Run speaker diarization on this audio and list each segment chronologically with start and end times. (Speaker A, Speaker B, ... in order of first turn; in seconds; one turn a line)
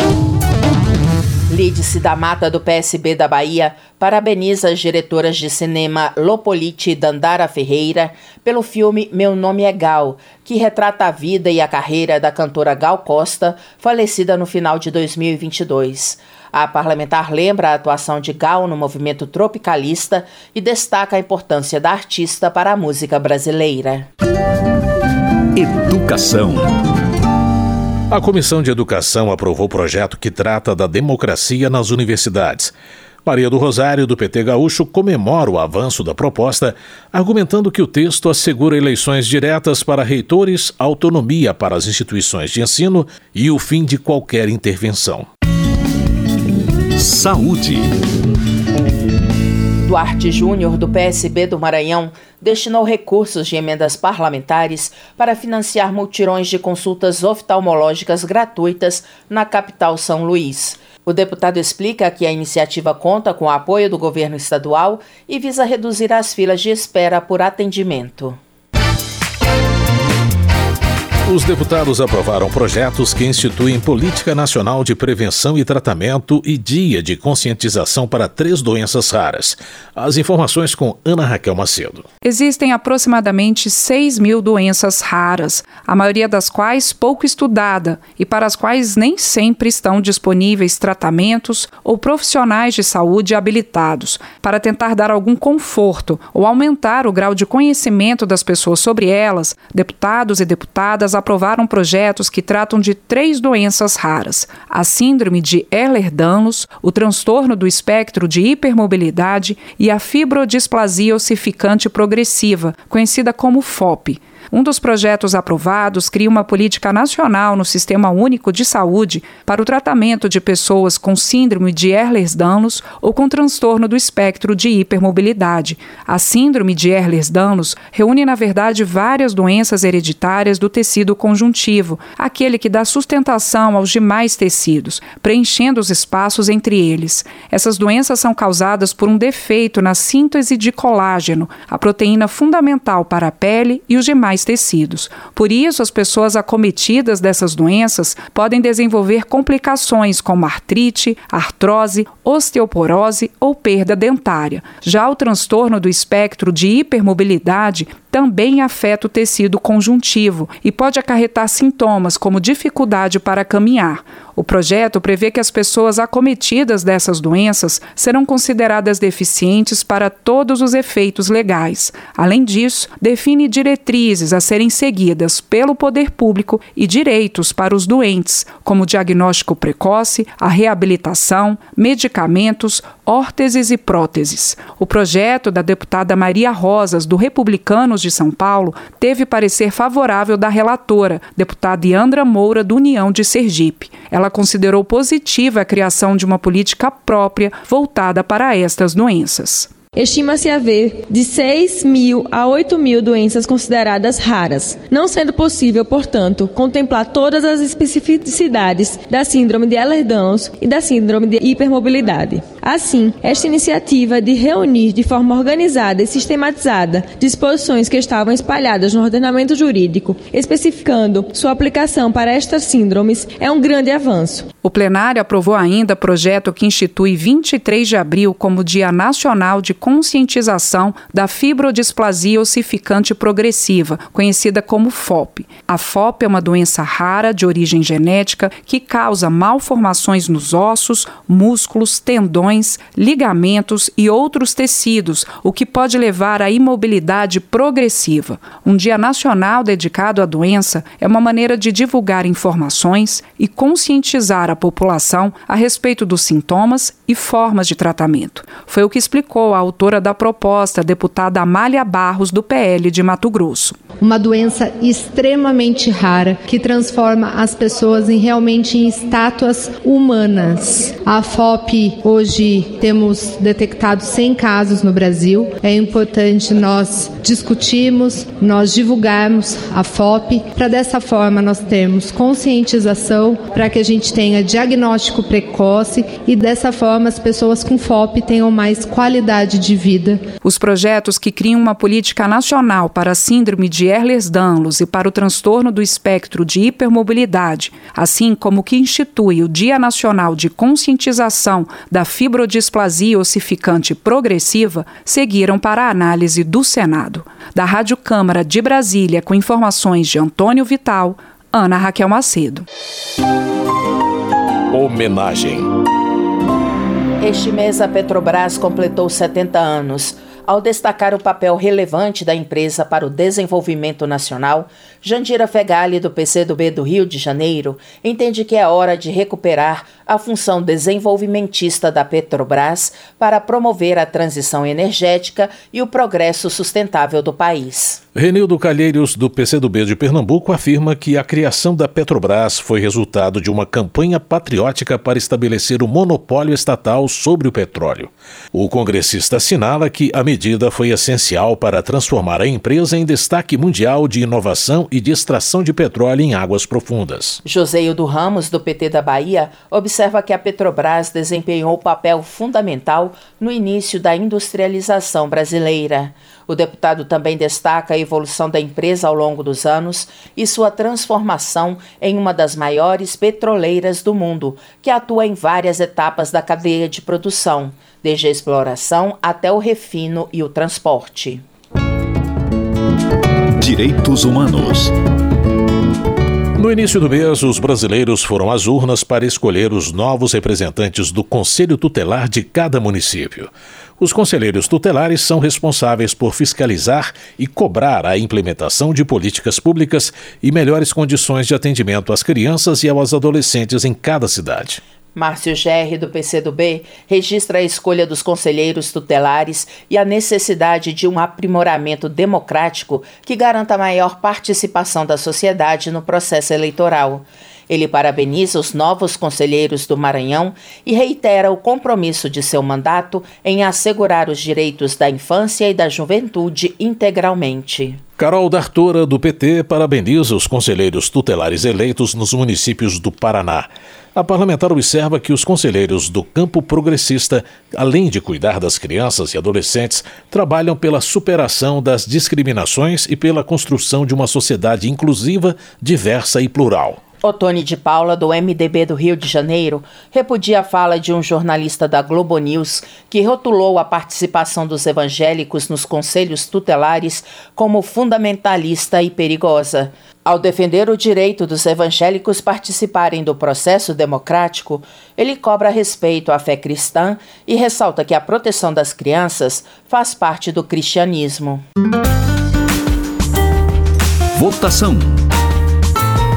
Speaker A: 1.5-24.1
Speaker B: 25.6-26.7
Speaker C: 28.1-32.7
Speaker C: 33.3-45.3
Speaker B: 47.0-47.9
Speaker A: 49.8-68.4
Speaker C: 71.3-82.1
Speaker D: 82.2-199.7
Speaker E: 199.9-224.5
Speaker D: 224.6-263.8
Speaker F: 264.0-290.2
Speaker D: 290.4-312.7
Speaker C: 314.7-315.7
Speaker A: 317.2-338.0
Speaker C: 338.1-357.4
Speaker A: 357.4-381.4
Speaker B: 383.6-384.9
Speaker C: 386.6-404.8
Speaker A: 405.1-428.0
Speaker C: 428.2-447.0
Speaker A: 447.2-471.6
Speaker B: 474.4-475.2